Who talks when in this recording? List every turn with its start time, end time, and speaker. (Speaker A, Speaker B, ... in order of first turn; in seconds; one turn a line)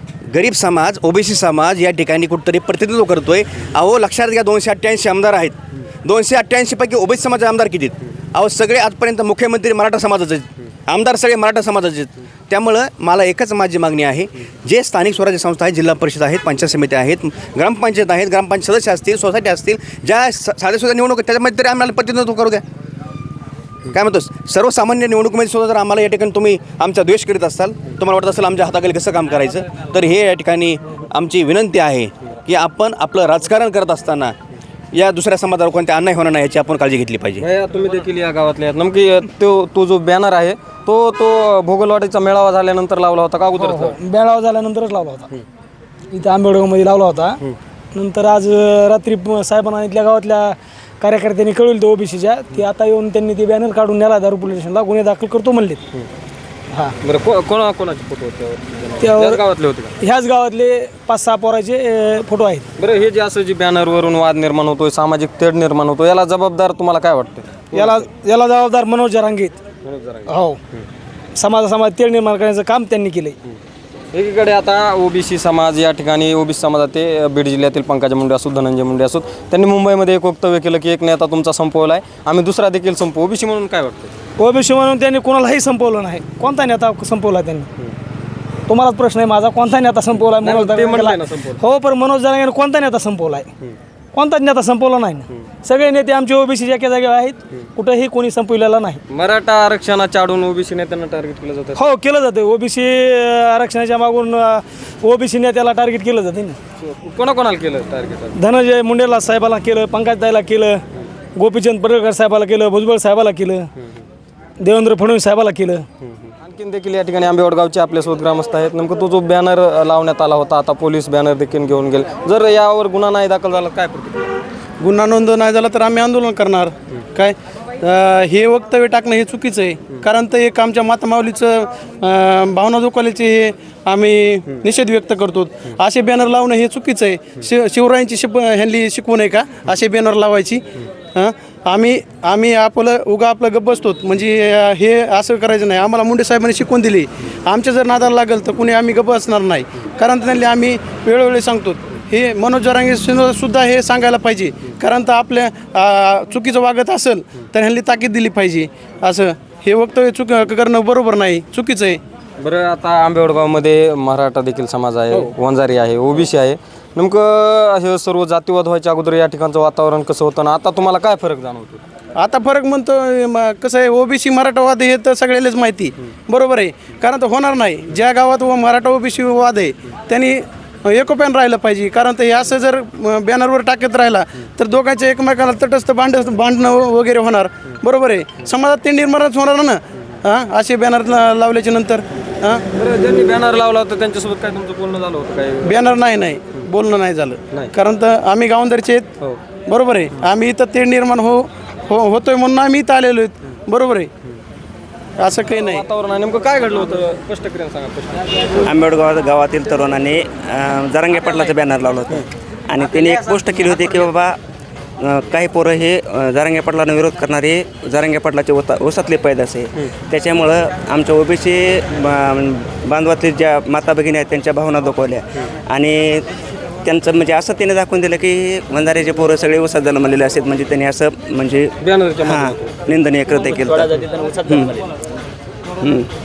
Speaker A: 0.3-22.6
Speaker A: 23.9-34.4
Speaker A: 34.9-37.5
Speaker B: 37.4-44.0
Speaker C: 43.6-45.3
Speaker C: 46.1-47.4
Speaker C: 47.9-55.8
Speaker B: 57.0-59.9
Speaker C: 59.0-59.4
Speaker C: 60.0-62.7
Speaker B: 62.8-68.1
Speaker C: 67.7-69.6
Speaker B: 69.8-70.8
Speaker C: 70.3-70.6
Speaker C: 71.4-73.4
Speaker B: 74.1-84.1
Speaker C: 84.4-87.7
Speaker C: 88.7-93.5
Speaker B: 90.4-91.6
Speaker C: 94.1-99.0
Speaker B: 99.1-101.9
Speaker C: 101.8-106.6
Speaker B: 106.8-108.4
Speaker C: 108.4-110.8
Speaker C: 111.4-113.7
Speaker C: 114.6-115.9
Speaker B: 116.2-124.3
Speaker D: 124.8-140.6
Speaker D: 141.2-162.0
Speaker B: 162.4-171.8
Speaker D: 172.2-192.6
Speaker B: 192.8-195.9
Speaker D: 195.7-199.1
Speaker D: 199.7-204.1
Speaker D: 205.2-205.8
Speaker B: 205.5-208.4
Speaker E: 208.7-214.4
Speaker E: 215.0-226.2
Speaker E: 226.8-234.8
Speaker B: 231.8-232.8
Speaker E: 235.8-236.1